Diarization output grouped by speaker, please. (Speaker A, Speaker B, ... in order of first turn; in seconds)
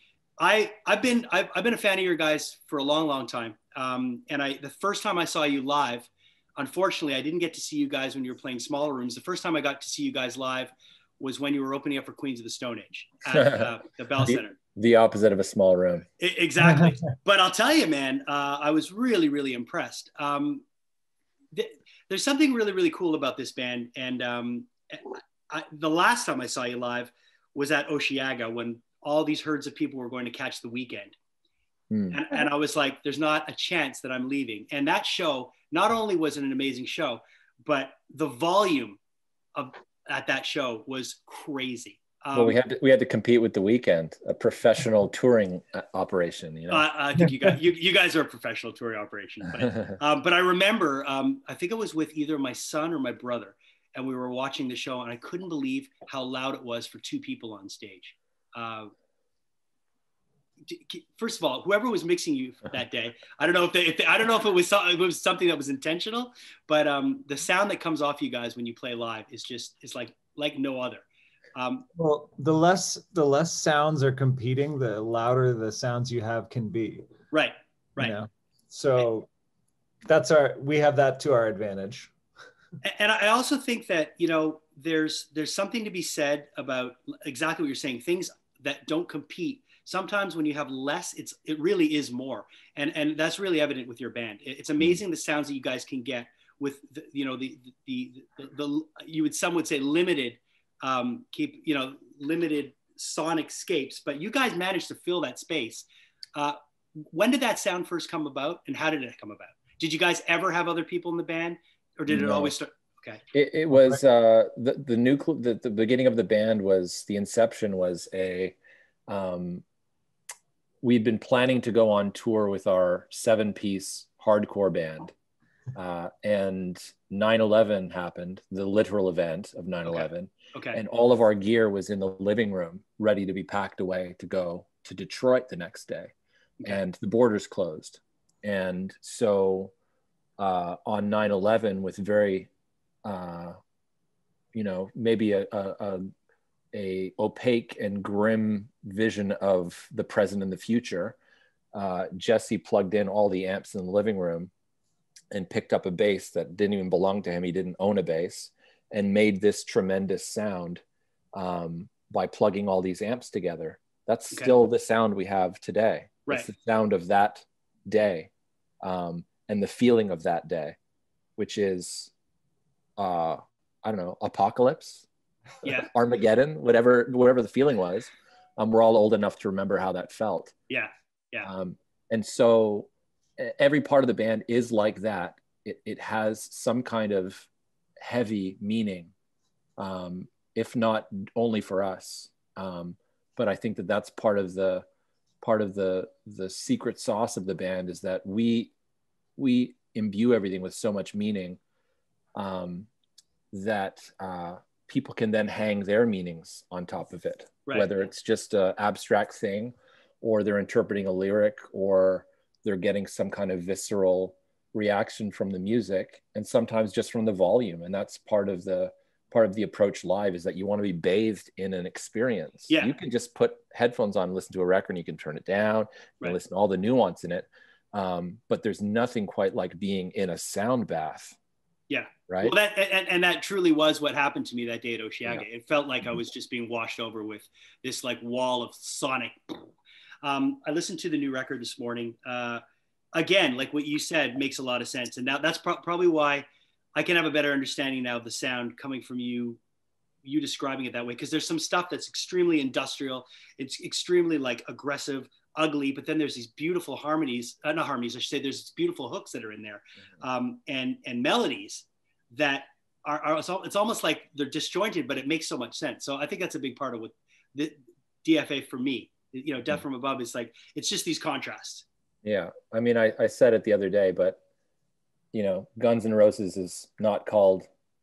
Speaker A: 0.4-14.6, 16.2-20.6, 21.5-31.1, 32.1-39.0, 39.5-42.6, 46.7-58.9, 60.6-71.9, 77.3-78.2, 82.8-113.2, 129.8-130.8, 175.6-175.9, 180.7-181.5, 207.7-207.9, 222.7-222.9, 231.9-239.7, 240.2-242.6, 243.1-246.4, 246.9-249.6, 250.2-271.9
Speaker B: 13.3-16.1, 31.9-32.2, 42.3-46.9, 112.1-112.5, 113.3-118.5, 119.1-119.6, 120.8-125.1, 125.7-136.1, 136.6-139.7, 140.4-142.5, 143.0-143.6, 144.5-146.1, 146.7-151.2, 151.7-154.5, 155.3-160.8, 161.3-168.3, 168.8-170.8, 171.4-172.1, 173.0-175.1, 175.7-180.5, 181.4-187.5, 188.0-189.1, 189.8-194.8, 195.4-198.7, 199.4-201.6, 202.3-202.9, 203.5-231.3, 232.3-232.5, 272.2-274.4, 275.3-277.7
Speaker C: 71.9-77.0, 78.0-79.3, 80.0-82.1